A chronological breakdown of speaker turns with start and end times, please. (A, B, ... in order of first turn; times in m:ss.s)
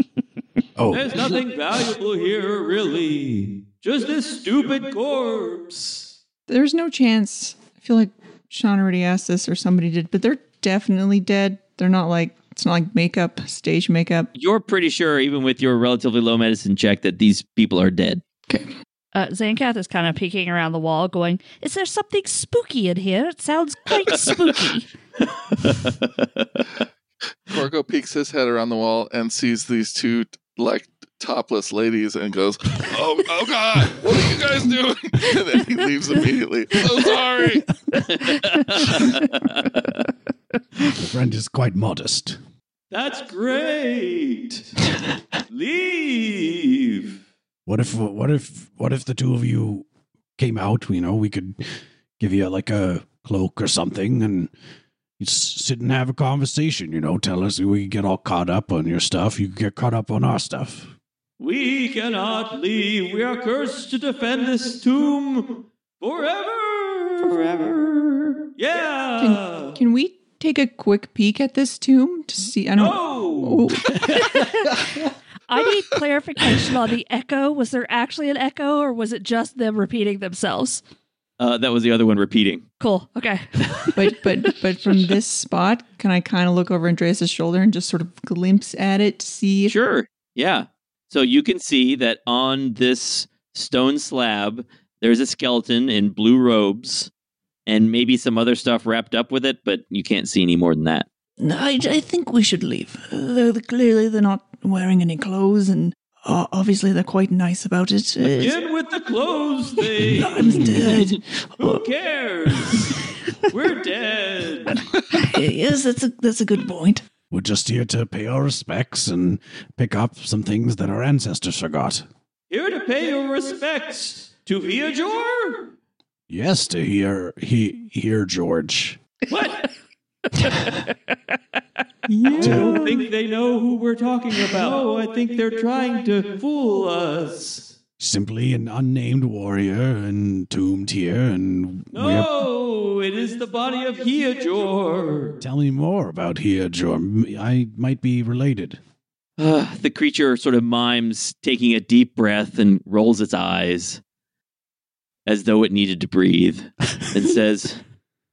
0:00.8-0:01.4 A
0:00.9-0:06.1 B
0:06.5-0:14.3 C
0:14.3-0:18.2 B
0:19.1-0:24.9 D
0:25.3-0:26.7 B
0:27.5-0:37.7 E
0:38.0-0:40.0 B
0:40.8-0:42.4 A
0:42.9-0:44.7 B
0:45.5-0:47.2 B
0:47.7-0:51.6 A
0:52.2-0:54.5 A
0:55.2-1:01.0 A
1:01.4-1:09.8 B
1:09.2-1:14.1 C
1:12.8-1:13.6 B
1:14.3-1:14.8 D
1:15.5-1:20.8 D
1:21.4-1:22.6 B
1:22.8-1:24.3 D
1:24.0-1:29.7 C
1:29.7-1:37.1 B
1:37.7-1:41.1 B
1:41.4-1:48.6 C
1:48.2-1:51.0 B
1:50.0-1:51.9 C
1:50.5-1:50.9 A
1:51.6-1:54.8 B
1:55.1-1:57.0 C
1:57.3-2:02.1 A
2:02.5-2:05.7 B
2:06.3-2:09.0 A
2:09.3-2:09.7 B
2:12.1-2:13.0 C
2:12.3-2:17.7 B
2:12.4-2:12.9 A
2:18.0-2:22.4 A
2:21.9-2:25.4 B
2:25.4-2:28.8 A
2:29.4-2:34.0 B
2:35.3-2:37.8 B